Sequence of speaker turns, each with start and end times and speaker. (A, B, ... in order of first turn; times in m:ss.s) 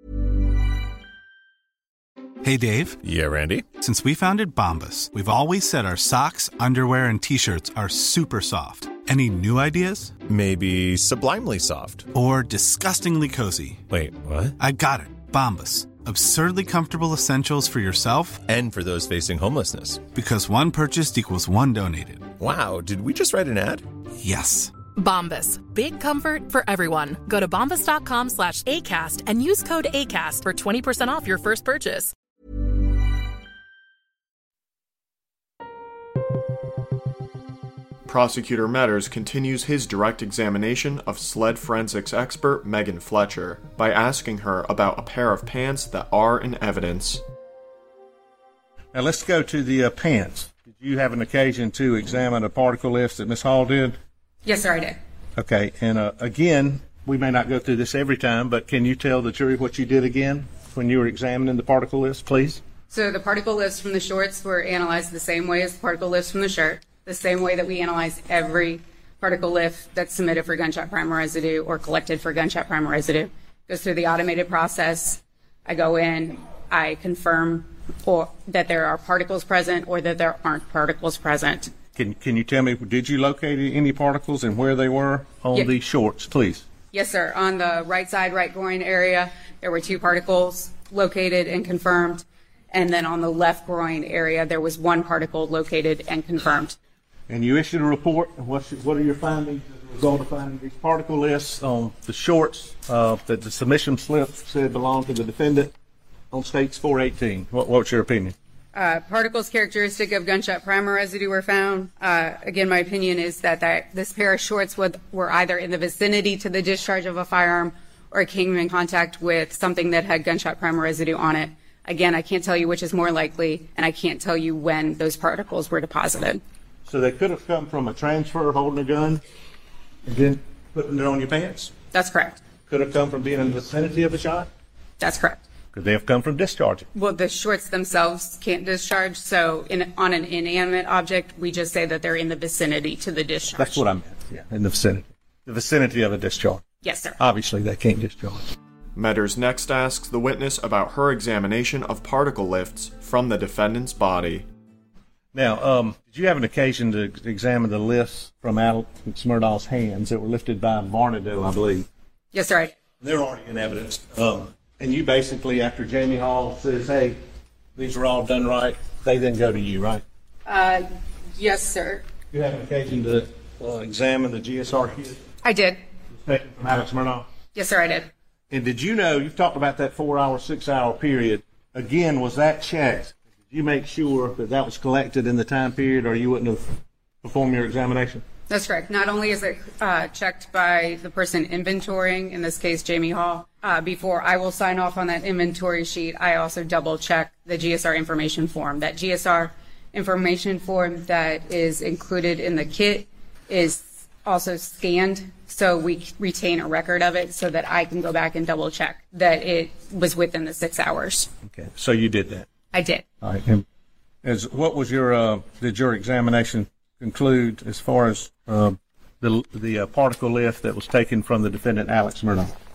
0:02.4-0:03.0 A
0:03.0-0:03.6 B
0:03.7-0:10.2 A
0:10.3-0:12.1 B
0:12.1-0:13.9 A
0:13.9-0:14.6 B
0:14.6-0:18.4 A
0:18.5-0:20.0 B
0:20.1-0:22.3 A
0:22.4-0:23.8 B
0:24.2-0:24.8 A
0:24.9-0:32.1 C
0:38.0-0:47.2 D
0:48.9-0:54.0 E
0:54.4-0:55.0 F
0:55.4-1:02.6 E
1:02.9-1:21.7 F
1:22.0-1:26.6 E
1:26.9-1:36.8 F
1:37.3-1:45.7 E
1:46.3-1:48.3 E
1:48.7-2:06.4 F
2:06.8-2:09.2 E
2:10.0-2:11.7 E
2:11.9-2:12.4 F
2:12.7-2:14.5 E
2:15.0-2:15.4 F
2:15.7-2:16.9 E
2:16.9-2:23.8 F
2:23.6-2:26.6 E
2:26.8-2:27.2 F
2:27.2-2:28.5 E
2:28.9-2:34.5 D
2:35.3-2:41.9 E
2:42.3-2:42.8 F
2:43.0-2:47.2 E
2:47.8-2:50.0 E
2:50.4-2:52.0 F
2:52.3-2:55.2 E
2:55.4-2:55.8 F
2:56.1-2:57.3 E
2:57.5-2:58.1 F
2:58.5-3:08.2 E
3:08.5-3:31.3 F
3:31.5-3:32.5 E
3:32.7-3:33.0 F
3:33.2-3:33.6 E
3:34.2-3:42.5 E